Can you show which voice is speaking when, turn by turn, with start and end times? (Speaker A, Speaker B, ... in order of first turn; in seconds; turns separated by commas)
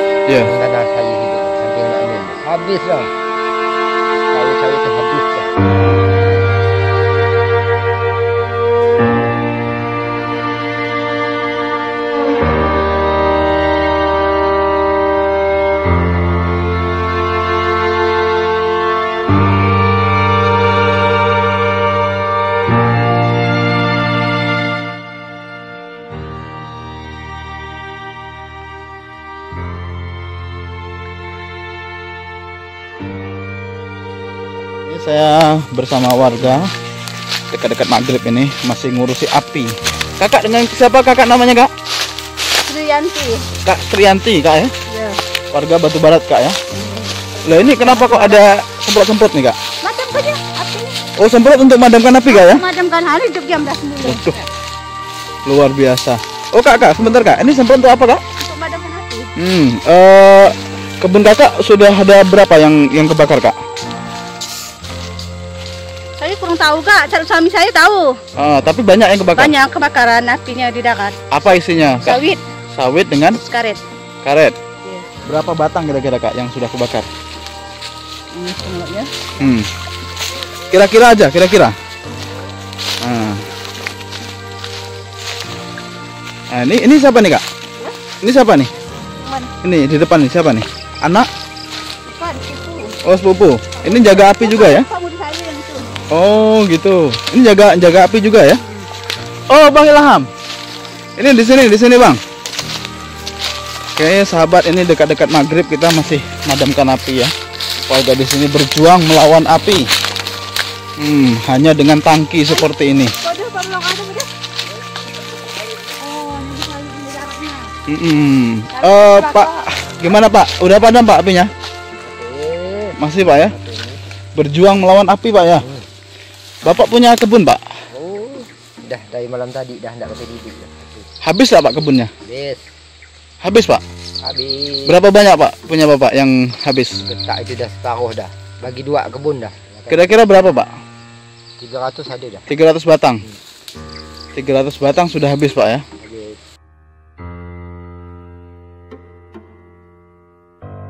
Speaker A: 0.4-3.1, Speaker A: 4.3-5.5, Speaker B: 34.8-36.7, Speaker B: 37.5-41.7, Speaker C: 42.6-43.5, Speaker B: 43.6-44.7, Speaker C: 44.9-45.2, Speaker B: 45.5-46.6, Speaker C: 46.7-48.4, Speaker B: 47.4-49.5, Speaker C: 49.8-50.9, Speaker B: 51.2-52.6, Speaker C: 52.2-54.4, Speaker B: 54.0-54.4, Speaker B: 55.4-58.2, Speaker C: 58.4-59.3, Speaker B: 59.4-63.5, Speaker C: 66.2-68.2, Speaker B: 68.4-69.5, Speaker C: 69.3-71.1, Speaker B: 71.3-72.2, Speaker C: 72.0-72.4, Speaker B: 72.7-73.4, Speaker C: 73.4-73.8, Speaker B: 74.2-74.5, Speaker B: 75.2-77.1, Speaker C: 78.3-79.4, Speaker B: 79.4-79.7, Speaker B: 80.7-81.8, Speaker B: 83.0-83.4, Speaker B: 86.5-87.4, Speaker B: 88.2-88.7, Speaker C: 89.2-89.5, Speaker B: 89.6-91.3, Speaker C: 92.0-93.0, Speaker B: 93.0-94.8, Speaker C: 93.8-95.9, Speaker B: 96.1-98.6, Speaker B: 99.5-100.3, Speaker B: 101.2-102.2, Speaker B: 103.9-107.3, Speaker B: 107.9-109.9, Speaker B: 111.0-113.1, Speaker C: 112.5-114.3, Speaker C: 115.9-117.7, Speaker B: 117.8-121.5, Speaker C: 118.7-119.7, Speaker A: 122.0-124.0, Speaker B: 123.0-123.5, Speaker B: 124.3-125.7, Speaker A: 125.6-125.8, Speaker B: 126.6-127.6, Speaker A: 127.9-131.1, Speaker B: 131.2-132.1, Speaker A: 132.2-132.6, Speaker B: 133.4-133.8, Speaker A: 134.2-135.0, Speaker B: 134.8-137.0, Speaker A: 137.0-140.1, Speaker B: 139.9-140.7, Speaker A: 141.6-142.5, Speaker B: 142.5-143.2, Speaker B: 144.3-145.8, Speaker A: 146.0-146.4